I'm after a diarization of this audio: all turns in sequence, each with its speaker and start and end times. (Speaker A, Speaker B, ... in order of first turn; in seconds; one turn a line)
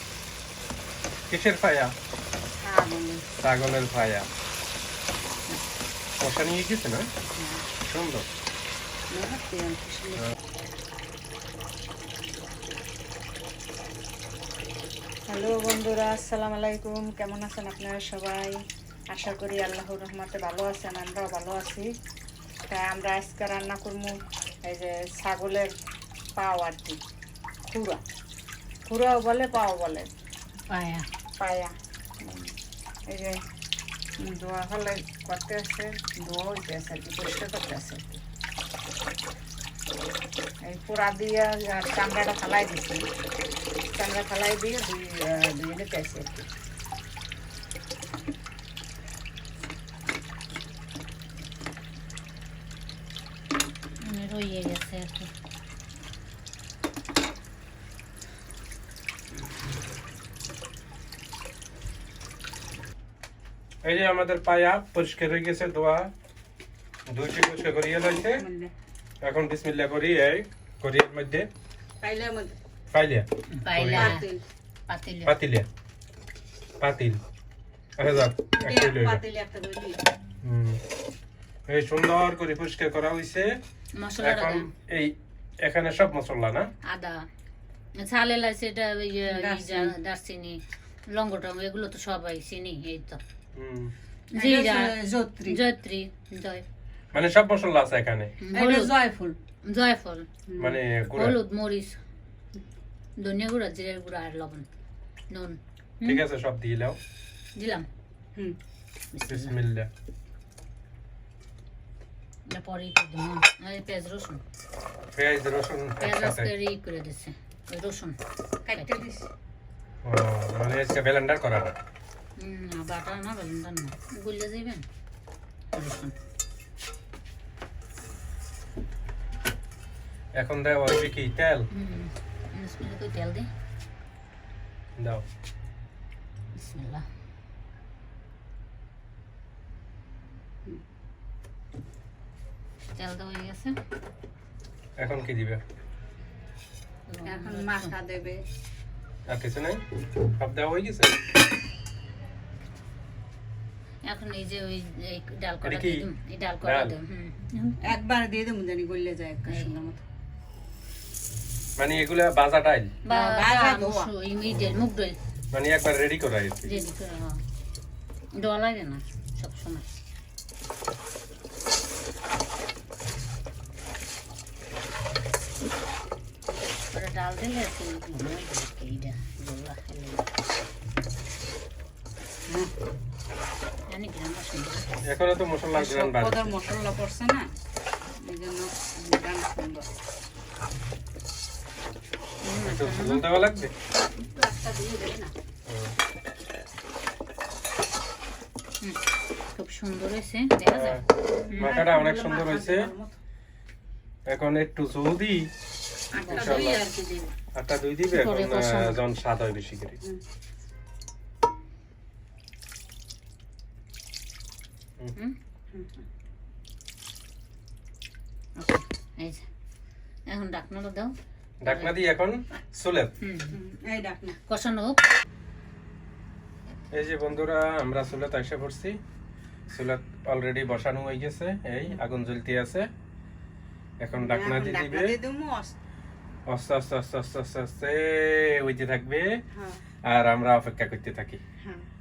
Speaker A: 1.3-1.9
Speaker B: 2.6-3.2
Speaker A: 3.4-4.3
Speaker A: 6.2-7.0
Speaker B: 7.3-7.6
Speaker A: 7.8-8.3
Speaker B: 9.1-10.3
Speaker B: 15.3-21.9
Speaker B: 22.7-25.7
Speaker B: 26.3-27.0
Speaker B: 27.6-28.0
Speaker B: 28.8-30.1
Speaker C: 30.7-31.1
Speaker B: 31.4-32.5
Speaker B: 33.1-33.4
Speaker B: 34.2-38.2
Speaker B: 40.6-43.1
Speaker B: 43.8-46.5
Speaker C: 54.0-55.3
Speaker A: 63.8-66.1
Speaker A: 67.1-68.4
Speaker B: 68.2-68.7
Speaker A: 69.2-71.5
Speaker B: 72.0-72.5
Speaker A: 72.9-74.2
Speaker C: 73.5-74.3
Speaker B: 73.9-74.4
Speaker C: 74.9-75.3
Speaker A: 75.2-75.7
Speaker A: 76.8-77.2
Speaker A: 78.0-79.2
Speaker B: 78.5-80.0
Speaker A: 80.4-80.8
Speaker A: 81.7-83.6
Speaker C: 83.9-84.7
Speaker A: 84.2-86.7
Speaker C: 86.8-87.2
Speaker C: 88.0-93.2
Speaker B: 89.2-90.0
Speaker A: 93.5-93.9
Speaker C: 94.3-96.6
Speaker B: 94.3-95.6
Speaker A: 97.1-98.3
Speaker C: 98.4-99.0
Speaker B: 98.5-99.4
Speaker C: 99.6-100.3
Speaker B: 100.5-100.8
Speaker A: 100.6-101.4
Speaker C: 101.0-102.0
Speaker C: 103.2-104.7
Speaker C: 105.3-106.2
Speaker A: 106.0-107.0
Speaker C: 107.5-107.9
Speaker C: 109.1-109.6
Speaker A: 109.3-109.9
Speaker C: 112.5-114.4
Speaker A: 115.1-116.5
Speaker C: 116.0-118.2
Speaker B: 118.7-119.3
Speaker C: 118.7-119.0
Speaker A: 120.0-121.8
Speaker C: 122.4-124.8
Speaker C: 125.7-126.1
Speaker A: 130.3-131.7
Speaker C: 131.7-133.5
Speaker A: 135.0-135.2
Speaker C: 136.5-137.0
Speaker C: 142.9-143.8
Speaker A: 145.0-145.6
Speaker C: 147.1-147.9
Speaker B: 147.2-148.4
Speaker A: 149.3-149.8
Speaker A: 150.3-151.2
Speaker C: 154.0-157.9
Speaker A: 155.6-156.0
Speaker A: 156.6-156.9
Speaker B: 157.8-160.0
Speaker A: 161.8-162.9
Speaker B: 163.0-164.1
Speaker C: 163.0-165.2
Speaker A: 165.5-166.8
Speaker C: 166.6-167.4
Speaker C: 168.3-169.8
Speaker C: 176.9-180.2
Speaker C: 183.9-184.9
Speaker A: 185.0-186.5
Speaker B: 185.7-187.5
Speaker B: 188.1-189.9
Speaker C: 192.4-193.6
Speaker A: 192.6-193.7
Speaker B: 194.1-195.3
Speaker A: 195.7-195.9
Speaker C: 199.6-201.8
Speaker A: 200.7-202.9
Speaker B: 201.5-203.2
Speaker A: 204.3-205.5
Speaker B: 206.1-207.3
Speaker C: 206.2-206.8
Speaker A: 206.3-206.8
Speaker A: 207.5-210.0
Speaker C: 208.1-209.0
Speaker B: 215.7-216.0
Speaker C: 218.6-219.4
Speaker C: 220.3-221.9
Speaker A: 221.6-223.1
Speaker C: 223.2-223.6
Speaker B: 223.5-224.4
Speaker C: 224.5-225.0
Speaker A: 226.9-229.0
Speaker A: 229.7-232.9
Speaker A: 234.0-235.2
Speaker B: 234.1-235.8
Speaker A: 236.5-239.4
Speaker B: 239.5-239.8
Speaker A: 240.0-241.4